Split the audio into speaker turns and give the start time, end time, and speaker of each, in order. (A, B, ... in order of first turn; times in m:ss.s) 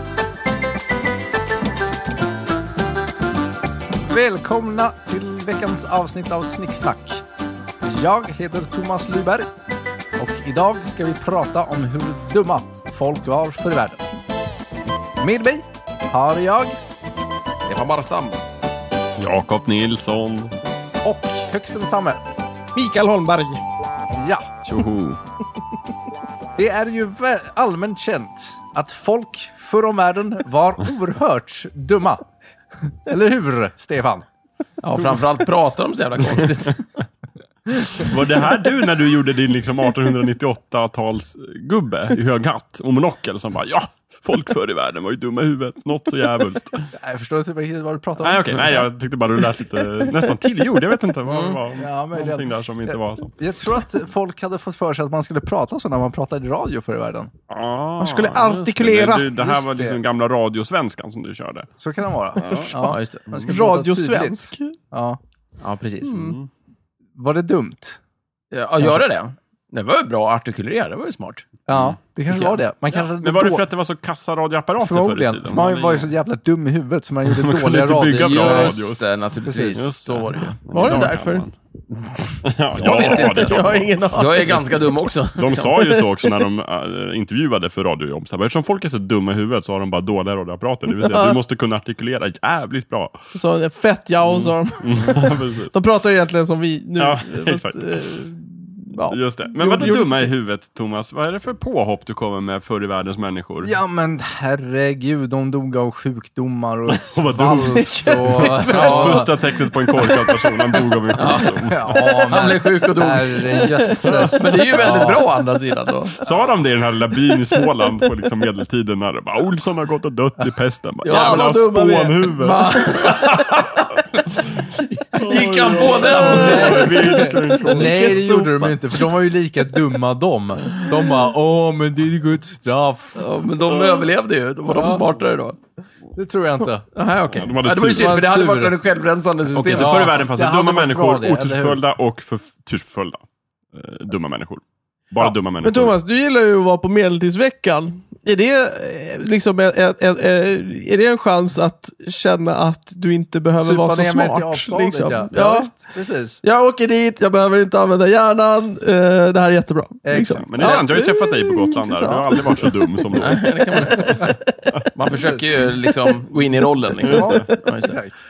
0:04.0-0:07.2 A
0:07.8-0:09.5 A
0:10.2-0:14.0 A
0:15.2-0:16.8 A
0:17.7-0:18.4 B
0:19.2-0:20.5 C
0:21.0-0:22.2 A
0:22.7-0:23.6 D
0:24.2-0:24.5 A
0:24.6-0:25.2 C
0:26.6-0:32.2 A
0:32.9-0:34.3 A
0:34.8-0:37.0 B
0:38.0-0:46.9 C
0:46.9-0:48.8 A
0:48.2-0:53.3 C
0:51.3-0:51.6 B
0:51.7-0:57.3 A
0:57.5-1:01.7 C
0:58.0-0:59.6 D
0:59.6-1:00.0 A
1:01.8-1:05.2 A
1:02.4-1:02.8 C
1:02.8-1:03.3 B
1:03.4-1:04.8 D
1:05.6-1:06.4 B
1:06.0-1:06.3 D
1:06.1-1:06.5 C
1:07.2-1:08.0 A
1:08.5-1:11.5 B
1:11.7-1:13.6 A
1:11.7-1:12.0 C
1:12.3-1:12.6 B
1:13.2-1:15.6 C
1:14.8-1:18.8 A
1:15.5-1:16.1 B
1:17.2-1:19.1 C
1:18.0-1:21.1 B
1:19.4-1:19.8 A
1:19.7-1:21.5 C
1:20.7-1:21.5 D
1:22.4-1:23.9 C
1:22.8-1:25.8 B
1:22.8-1:24.7 D
1:25.4-1:33.1 C
1:31.0-1:31.4 D
1:33.3-1:40.3 D
1:34.2-1:35.7 C
1:37.0-1:38.0 C
1:39.0-1:43.7 C
1:43.6-1:49.3 A
1:46.9-1:52.0 C
1:47.9-1:49.0 D
1:48.7-1:49.3 B
1:50.1-1:50.8 D
1:51.2-1:56.2 B
1:51.7-1:55.2 A
1:56.2-2:03.7 C
2:01.0-2:02.4 D
2:01.2-2:01.5 B
2:02.3-2:03.9 B
2:04.8-2:07.2 B
2:05.1-2:08.2 C
2:05.8-2:08.8 D
2:06.1-2:13.2 A
2:13.2-2:15.6 B
2:14.7-2:15.1 A
2:16.2-2:16.9 A
2:17.0-2:20.2 B
2:17.3-2:18.3 C
2:18.0-2:18.8 A
2:19.5-2:21.8 A
2:19.6-2:23.2 C
2:23.7-2:26.0 C
2:25.2-2:35.9 D
2:33.6-2:36.4 A
2:36.4-2:44.3 D
2:40.0-2:40.8 A
2:40.3-2:44.0 C
2:43.2-2:44.3 B
2:45.0-2:48.0 B
2:45.1-2:45.5 A
2:47.0-2:48.2 A
2:47.1-2:47.5 C